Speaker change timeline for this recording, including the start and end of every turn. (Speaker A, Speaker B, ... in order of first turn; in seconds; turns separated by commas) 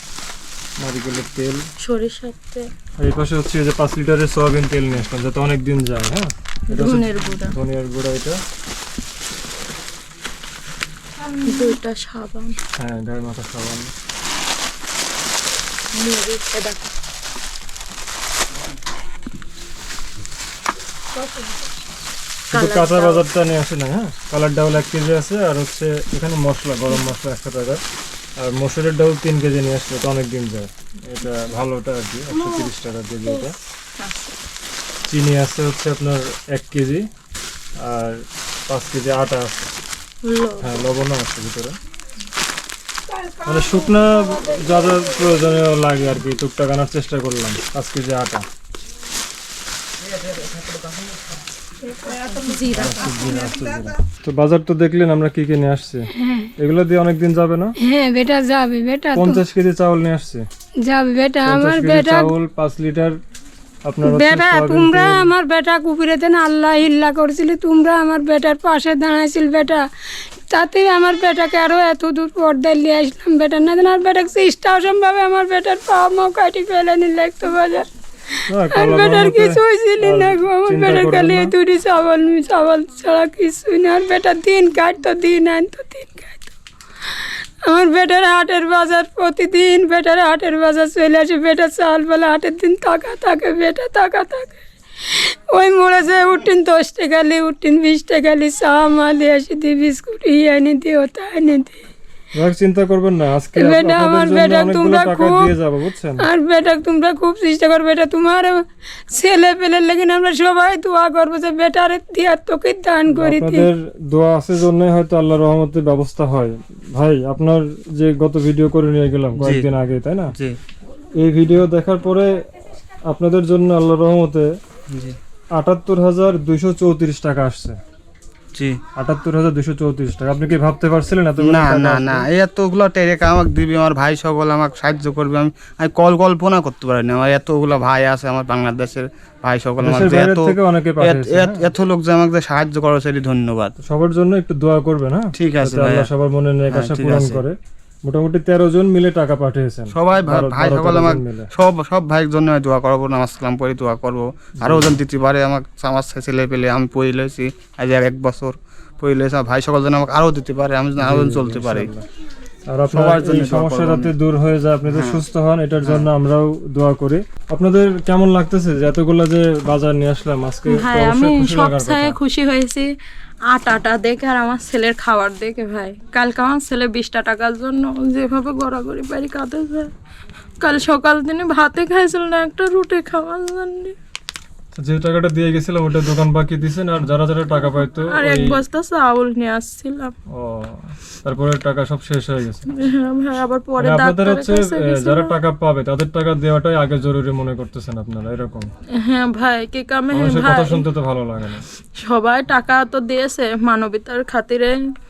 Speaker A: 0.8-1.6, Speaker B: 1.8-2.7, Speaker A: 3.0-8.4, Speaker B: 6.7-7.6, Speaker B: 11.2-12.6, Speaker A: 12.8-13.9, Speaker B: 15.9-16.9, Speaker B: 21.2-21.7, Speaker B: 22.5-23.2, Speaker A: 22.5-27.8, Speaker A: 28.4-33.6, Speaker B: 32.4-32.7, Speaker B: 34.0-34.4, Speaker A: 35.1-37.1, Speaker A: 37.8-39.7, Speaker B: 40.2-40.9, Speaker A: 40.6-41.8, Speaker C: 43.1-45.5, Speaker A: 43.4-48.4, Speaker D: 50.3-50.8, Speaker C: 51.9-52.3, Speaker B: 52.3-53.5, Speaker A: 52.7-57.8, Speaker C: 56.1-56.5, Speaker C: 57.8-59.4, Speaker A: 59.1-60.5, Speaker C: 60.8-62.3, Speaker A: 61.4-63.2, Speaker A: 63.8-65.3, Speaker C: 64.0-69.9, Speaker C: 70.5-86.5, Speaker A: 78.5-81.5, Speaker C: 87.2-101.8, Speaker A: 102.3-106.2, Speaker C: 103.5-105.5, Speaker C: 106.2-113.7, Speaker A: 113.1-120.3, Speaker D: 119.4-119.7, Speaker A: 121.2-122.3, Speaker A: 123.1-124.5, Speaker D: 124.9-125.2, Speaker A: 125.5-127.8, Speaker D: 128.6-128.8, Speaker A: 128.9-132.2, Speaker D: 131.4-143.8, Speaker A: 139.8-141.6, Speaker A: 143.8-151.5, Speaker D: 145.3-146.1, Speaker D: 146.7-147.4, Speaker D: 149.9-161.9, Speaker A: 154.6-155.0, Speaker A: 161.0-162.0, Speaker A: 162.7-172.2, Speaker D: 162.9-164.1, Speaker D: 164.8-165.3, Speaker B: 170.7-172.9, Speaker B: 173.5-179.9, Speaker B: 180.6-183.9, Speaker A: 184.8-188.6, Speaker B: 187.5-190.1, Speaker A: 190.3-192.7, Speaker B: 192.7-195.3, Speaker A: 193.8-198.7, Speaker B: 199.0-200.8, Speaker A: 200.1-201.6, Speaker B: 202.0-204.7